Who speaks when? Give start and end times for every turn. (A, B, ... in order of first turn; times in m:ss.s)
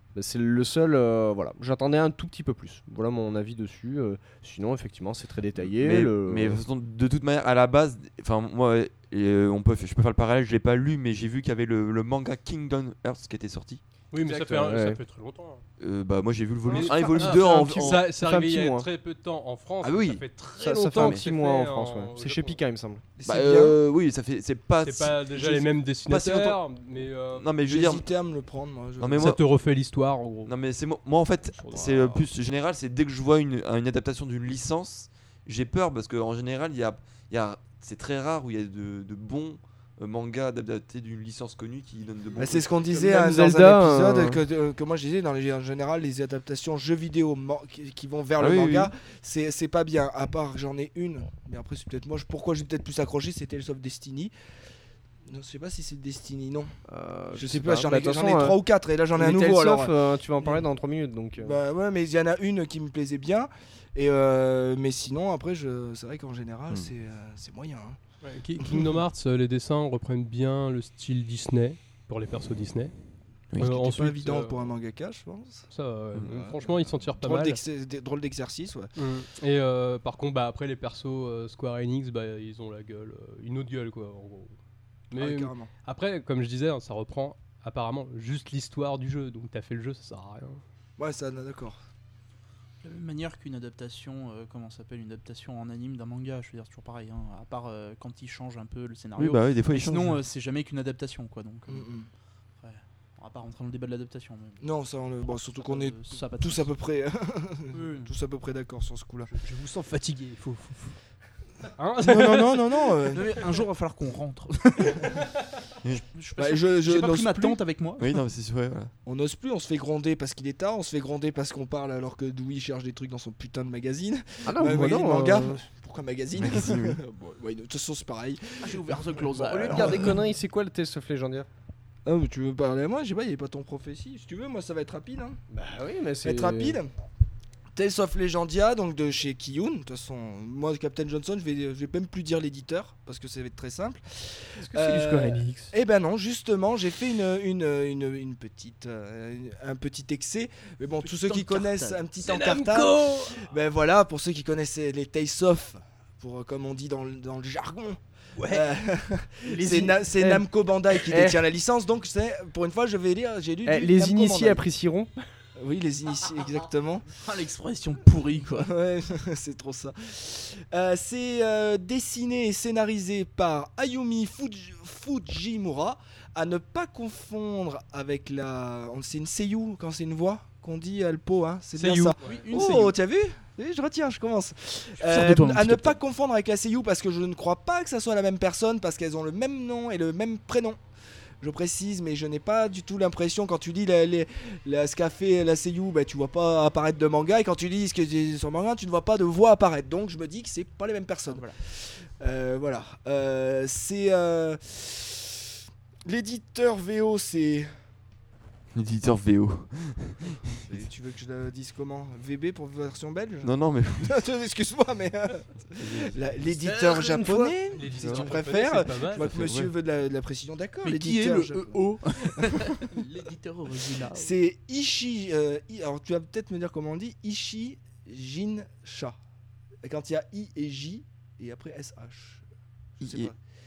0:00.1-0:06.6 A
0:05.6-0:13.8 B
0:14.1-0:15.6 C
0:14.2-0:15.0 A
0:15.8-0:18.0 B
0:16.6-0:22.6 C
0:16.7-0:18.9 A
0:19.8-0:20.2 B
0:20.6-0:23.0 A
0:21.0-0:21.2 B
0:23.2-0:23.8 D
0:23.2-0:26.6 B
0:24.8-0:27.5 C
0:27.3-0:28.0 B
0:27.6-0:29.3 D
0:29.0-0:29.4 B
0:29.1-0:30.5 C
0:30.4-0:42.8 B
0:31.6-0:32.3 C
0:42.4-0:54.3 D
0:42.9-0:44.4 A
0:48.4-0:48.9 B
0:55.3-0:56.7 D
0:56.9-0:58.6 A
0:57.3-1:00.6 D
0:59.1-1:01.6 A
1:01.4-1:08.0 D
1:08.2-1:12.9 C
1:08.6-1:08.9 D
1:13.6-1:14.7 C
1:13.6-1:15.6 D
1:15.7-1:17.6 C
1:16.2-1:18.9 D
1:19.0-1:24.6 C
1:25.1-1:30.6 C
1:25.2-1:25.7 D
1:31.0-1:31.8 D
1:32.8-1:41.9 E
1:39.2-1:40.2 B
1:41.7-1:42.1 D
1:42.6-1:44.6 E
1:44.6-1:49.3 D
1:45.6-1:46.7 E
1:47.7-1:48.1 E
1:49.3-1:51.0 C
1:51.8-1:53.2 C
1:52.0-1:53.2 D
1:53.1-1:55.2 E
1:55.0-1:55.4 C
1:56.1-1:58.1 E
1:56.4-1:57.6 D
1:58.0-1:58.9 B
1:59.0-2:09.1 D
2:04.4-2:05.6 A
2:06.4-2:07.0 B
2:08.6-2:10.2 E
2:09.3-2:11.5 A
2:09.7-2:10.1 D
2:12.0-2:15.4 D
2:15.5-2:16.8 A
2:16.2-2:16.9 D
2:17.7-2:44.6 D
2:24.6-2:25.7 A
2:31.0-2:32.0 E
2:32.2-2:33.4 C
2:38.4-2:38.7 E
2:39.5-2:41.4 A
2:43.6-2:45.1 A
2:45.6-2:47.0 D
2:47.1-2:48.7 E
2:48.5-3:10.8 D
3:01.8-3:02.4 C
3:02.2-3:02.9 E
3:05.0-3:06.0 E
3:11.4-3:25.4 D
3:21.3-3:21.6 E
3:26.0-3:27.7 D
3:28.7-3:30.4 B
3:30.6-3:33.5 D
3:33.4-3:34.2 B
3:34.0-3:42.8 D
3:36.5-3:37.5 E
3:37.7-3:39.3 C
3:38.0-3:38.3 B
3:39.2-3:39.7 B
3:40.8-3:44.3 E
3:44.1-3:49.2 D
3:49.8-3:52.4 D
3:53.0-3:53.4 D
3:53.0-3:53.3 B